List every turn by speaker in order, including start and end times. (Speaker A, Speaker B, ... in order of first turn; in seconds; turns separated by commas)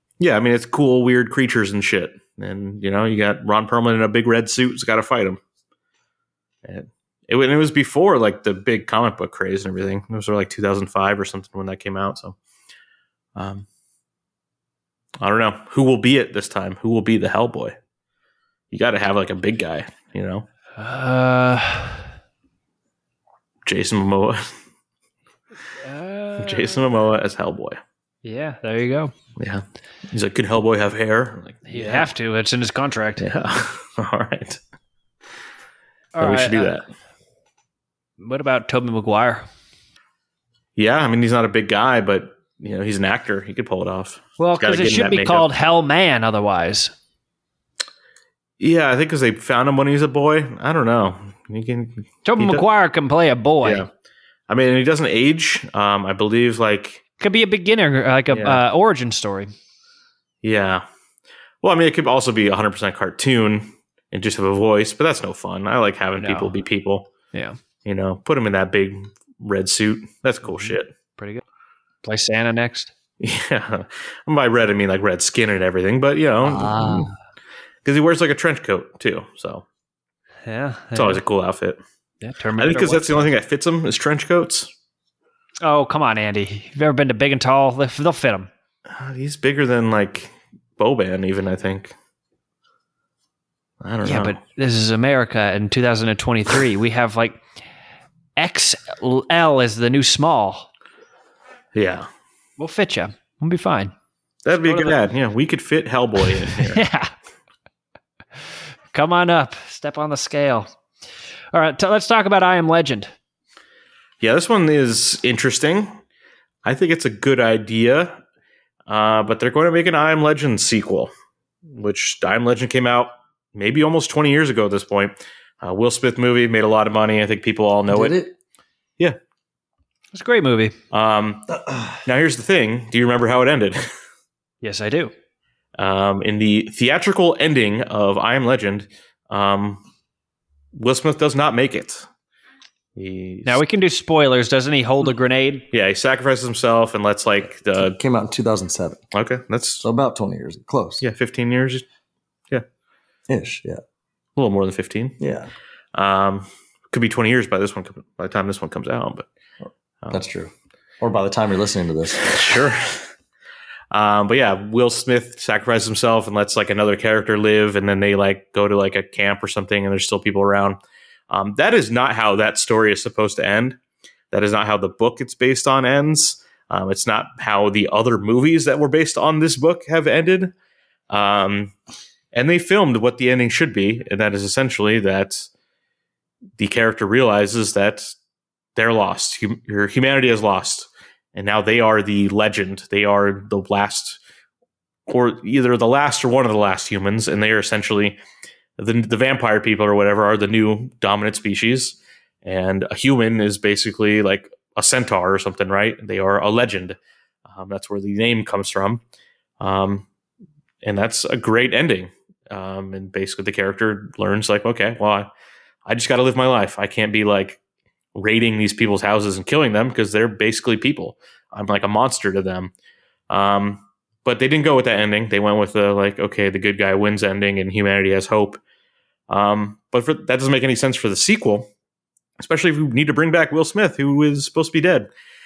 Speaker A: 0.2-5.4, Speaker A: 6.6-12.3, Speaker A: 13.3-13.7, Speaker A: 15.2-17.7, Speaker A: 18.7-20.4, Speaker B: 20.8-22.0, Speaker A: 23.6-24.5, Speaker B: 25.8-26.8, Speaker A: 26.4-27.8, Speaker B: 28.2-29.1, Speaker A: 29.4-32.1, Speaker B: 31.7-33.2, Speaker A: 33.2-34.6, Speaker B: 36.1-36.8, Speaker A: 36.2-36.8, Speaker B: 38.2-39.5, Speaker A: 40.8-45.5, Speaker B: 44.4-46.9, Speaker A: 48.6-52.6, Speaker B: 52.2-53.8, Speaker A: 54.5-57.0, Speaker B: 57.2-59.5, Speaker A: 58.3-58.6, Speaker A: 60.4-60.8, Speaker A: 61.6-67.1, Speaker B: 66.2-66.5, Speaker B: 67.3-67.6, Speaker A: 67.8-70.9, Speaker B: 70.5-71.4, Speaker B: 72.0-72.9, Speaker A: 73.2-77.1, Speaker B: 76.5-77.1, Speaker A: 77.8-79.6, Speaker B: 80.5-81.2, Speaker A: 80.9-81.8, Speaker B: 82.2-83.3, Speaker A: 82.6-84.7, Speaker B: 85.6-88.5, Speaker A: 88.9-91.9, Speaker A: 93.8-94.3, Speaker B: 94.0-97.4, Speaker B: 98.4-100.7, Speaker A: 101.7-102.1, Speaker B: 102.6-103.9, Speaker A: 104.4-106.8, Speaker B: 104.6-105.0, Speaker B: 106.2-107.1, Speaker B: 108.9-110.7, Speaker B: 111.5-113.1, Speaker A: 114.2-115.9, Speaker A: 116.6-118.2, Speaker A: 118.9-121.1, Speaker A: 121.7-128.2, Speaker C: 127.9-128.3, Speaker B: 130.1-130.7, Speaker A: 130.9-133.9, Speaker B: 134.6-135.1, Speaker A: 135.8-139.8, Speaker A: 140.7-142.1, Speaker A: 142.9-143.6, Speaker B: 143.4-145.7, Speaker A: 145.7-147.9, Speaker C: 147.8-149.0, Speaker A: 149.1-149.8, Speaker C: 149.8-151.0, Speaker A: 151.0-151.8, Speaker C: 153.3-153.8, Speaker A: 154.4-155.2, Speaker C: 155.2-155.5, Speaker A: 155.9-159.3, Speaker C: 160.1-162.7, Speaker A: 162.2-163.1, Speaker A: 163.9-170.8, Speaker A: 171.3-173.8, Speaker A: 174.3-180.5, Speaker A: 181.1-181.7, Speaker A: 182.3-185.5, Speaker A: 186.6-188.2, Speaker A: 188.7-194.2, Speaker A: 195.1-198.2, Speaker A: 198.8-207.0, Speaker A: 207.5-209.0, Speaker A: 209.6-210.1, Speaker A: 210.8-215.3, Speaker A: 215.8-217.6, Speaker A: 218.1-222.7, Speaker A: 223.3-228.6, Speaker A: 229.3-231.7, Speaker A: 232.4-235.1